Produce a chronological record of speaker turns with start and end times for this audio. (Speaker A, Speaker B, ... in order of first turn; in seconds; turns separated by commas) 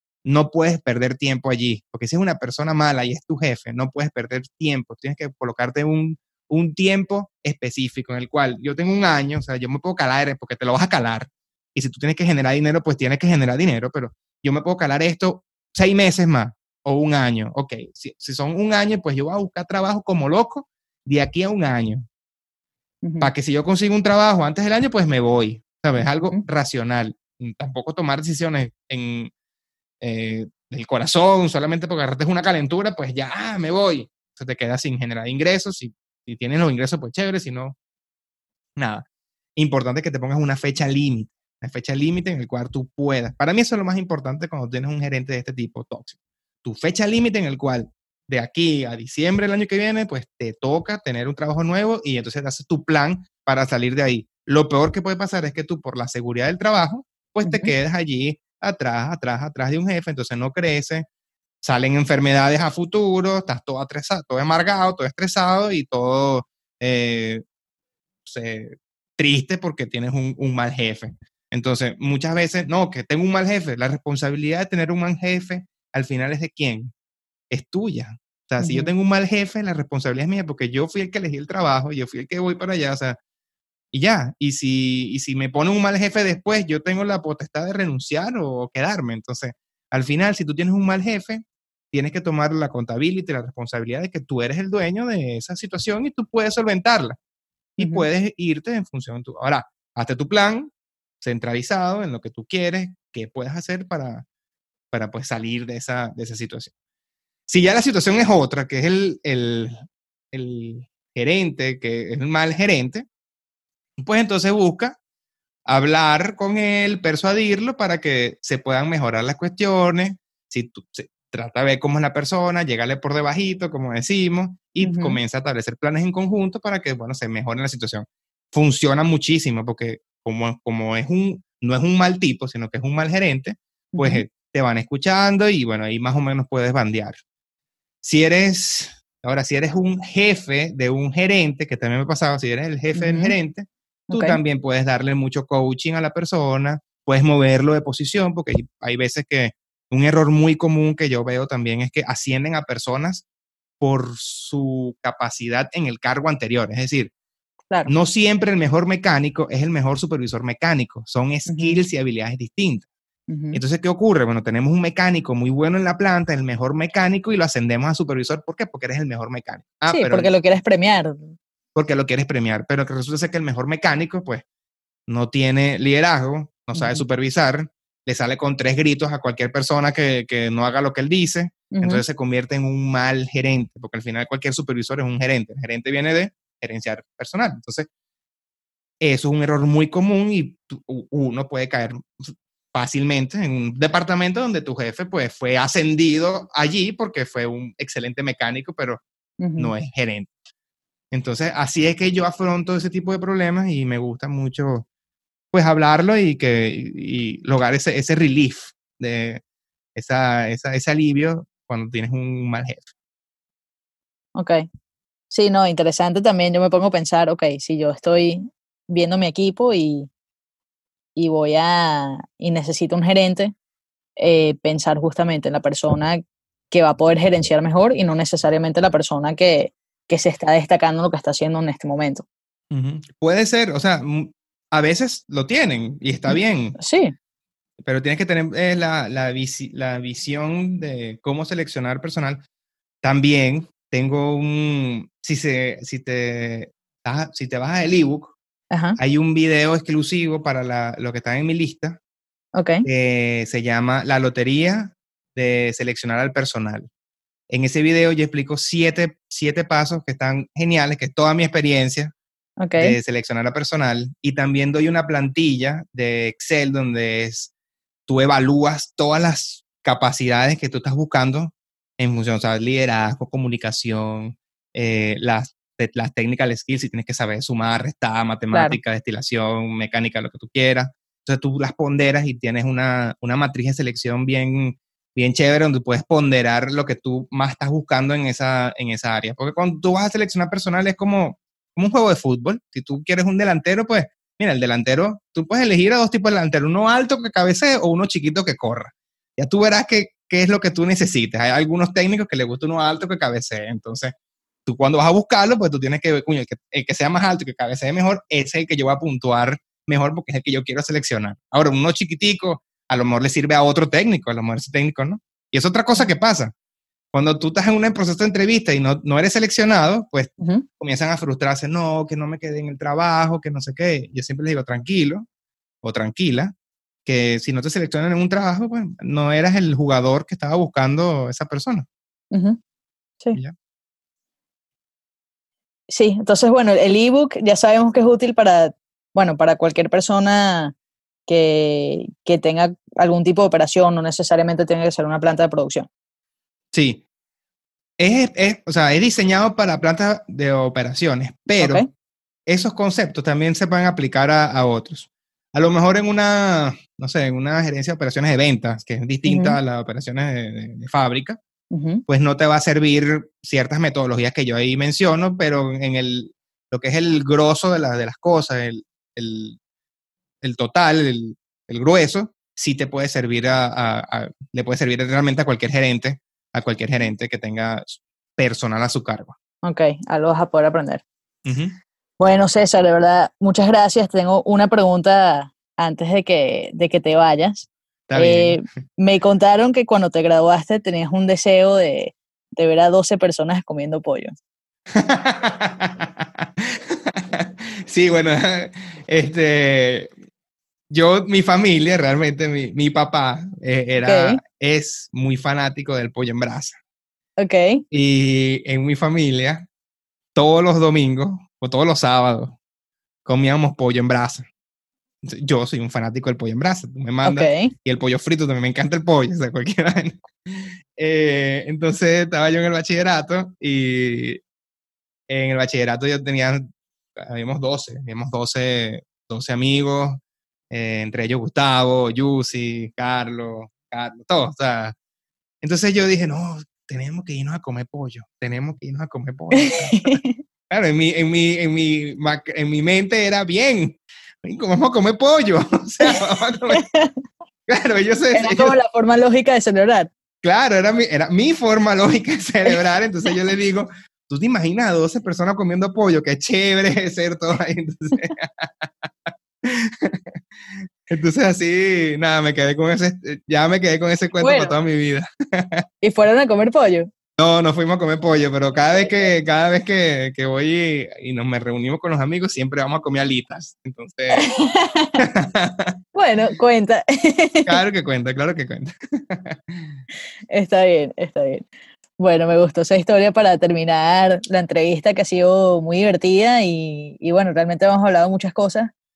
Speaker A: 0.2-22.1, Speaker B: 23.0-23.3, Speaker A: 23.2-29.3, Speaker B: 25.9-26.4, Speaker A: 30.0-37.7, Speaker A: 38.8-39.0, Speaker A: 39.6-61.0, Speaker B: 57.4-57.7, Speaker A: 61.6-67.4, Speaker A: 68.2-76.9, Speaker A: 77.5-83.2, Speaker B: 78.6-78.9, Speaker A: 83.9-97.2, Speaker A: 97.8-104.2, Speaker B: 97.8-98.0, Speaker A: 104.9-106.7, Speaker A: 107.5-113.0, Speaker A: 114.0-115.0, Speaker A: 115.7-137.2, Speaker B: 124.8-125.2, Speaker B: 133.9-134.2, Speaker A: 138.0-153.2, Speaker B: 142.9-143.3, Speaker B: 144.1-144.4, Speaker A: 153.8-157.1, Speaker A: 157.8-162.9, Speaker B: 161.5-161.8, Speaker B: 163.3-163.6, Speaker A: 163.5-170.3, Speaker B: 169.9-171.3, Speaker A: 171.7-174.4, Speaker A: 175.1-187.9, Speaker B: 176.8-177.0, Speaker B: 181.7-182.0, Speaker A: 189.0-199.0, Speaker B: 199.4-199.7, Speaker A: 199.6-200.3, Speaker A: 201.1-204.8, Speaker A: 205.5-209.4, Speaker A: 209.9-212.9, Speaker B: 214.3-214.7, Speaker B: 215.3-220.1, Speaker B: 221.2-223.5, Speaker B: 224.2-232.2, Speaker A: 232.7-236.8, Speaker B: 236.3-237.1, Speaker A: 237.8-242.4, Speaker A: 243.0-248.3, Speaker B: 248.7-249.0, Speaker A: 249.0-252.0, Speaker B: 252.5-252.8, Speaker A: 252.8-256.9, Speaker A: 257.5-262.1, Speaker B: 262.6-263.0, Speaker A: 262.8-267.5, Speaker A: 268.1-304.1, Speaker B: 278.5-278.8, Speaker A: 304.6-316.5, Speaker A: 317.1-325.2, Speaker B: 320.4-320.6, Speaker A: 325.8-326.5, Speaker A: 327.0-331.9, Speaker B: 332.3-332.6, Speaker B: 335.9-340.7, Speaker B: 341.3-345.9, Speaker A: 346.7-347.0, Speaker A: 348.0-351.9, Speaker B: 351.6-351.9, Speaker A: 352.5-361.4, Speaker B: 359.2-359.6, Speaker B: 361.7-362.0, Speaker A: 362.1-369.6, Speaker A: 370.4-379.3, Speaker B: 379.6-381.0, Speaker A: 381.4-381.8, Speaker B: 382.2-394.3, Speaker A: 388.1-388.6, Speaker A: 394.9-400.1, Speaker A: 400.9-406.8, Speaker B: 404.0-404.4, Speaker B: 407.4-407.8, Speaker A: 407.9-409.6, Speaker A: 410.3-412.6, Speaker A: 413.2-414.4, Speaker A: 415.2-424.4, Speaker B: 417.2-417.7, Speaker A: 425.3-426.6, Speaker A: 427.2-434.9, Speaker A: 435.6-446.8, Speaker B: 439.5-440.4, Speaker B: 446.7-447.2, Speaker A: 447.7-448.8, Speaker B: 448.3-450.1, Speaker A: 450.4-460.4, Speaker A: 461.1-465.8, Speaker B: 464.4-464.8, Speaker B: 466.0-467.1, Speaker A: 467.4-474.5, Speaker B: 474.3-475.2, Speaker A: 475.2-475.9, Speaker B: 476.1-477.8, Speaker A: 477.6-479.9, Speaker B: 480.5-481.7, Speaker B: 482.2-488.9